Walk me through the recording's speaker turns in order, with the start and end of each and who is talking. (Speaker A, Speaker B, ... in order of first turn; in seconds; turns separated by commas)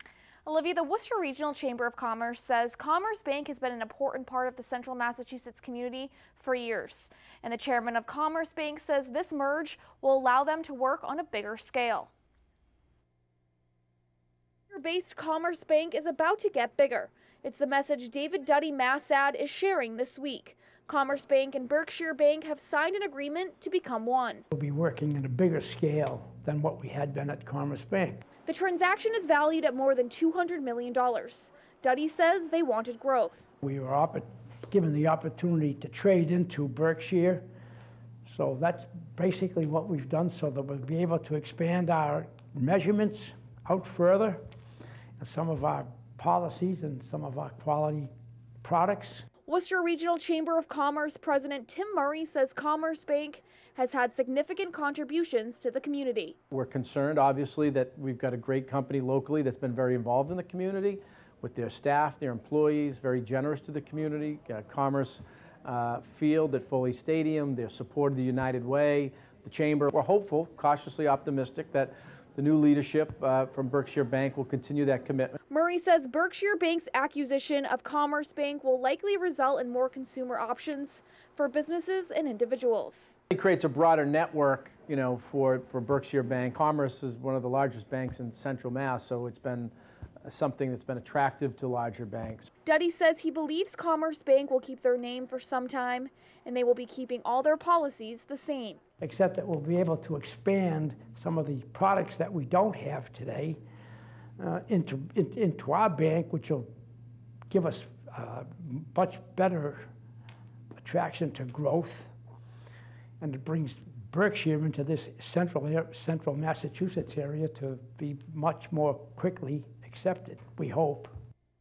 Speaker A: 0.5-12.1, Speaker A: 14.7-24.4, Speaker B: 24.5-28.2, Speaker A: 28.5-33.5, Speaker B: 33.6-37.5, Speaker B: 38.2-44.4, Speaker B: 45.2-48.1, Speaker B: 48.6-49.3, Speaker A: 49.5-56.4, Speaker C: 56.5-75.4, Speaker A: 75.5-83.2, Speaker C: 83.3-89.7, Speaker C: 90.2-92.5, Speaker A: 92.7-98.8, Speaker B: 99.0-103.6, Speaker B: 104.4-106.7, Speaker B: 107.5-109.9, Speaker B: 110.8-112.1, Speaker B: 113.2-121.1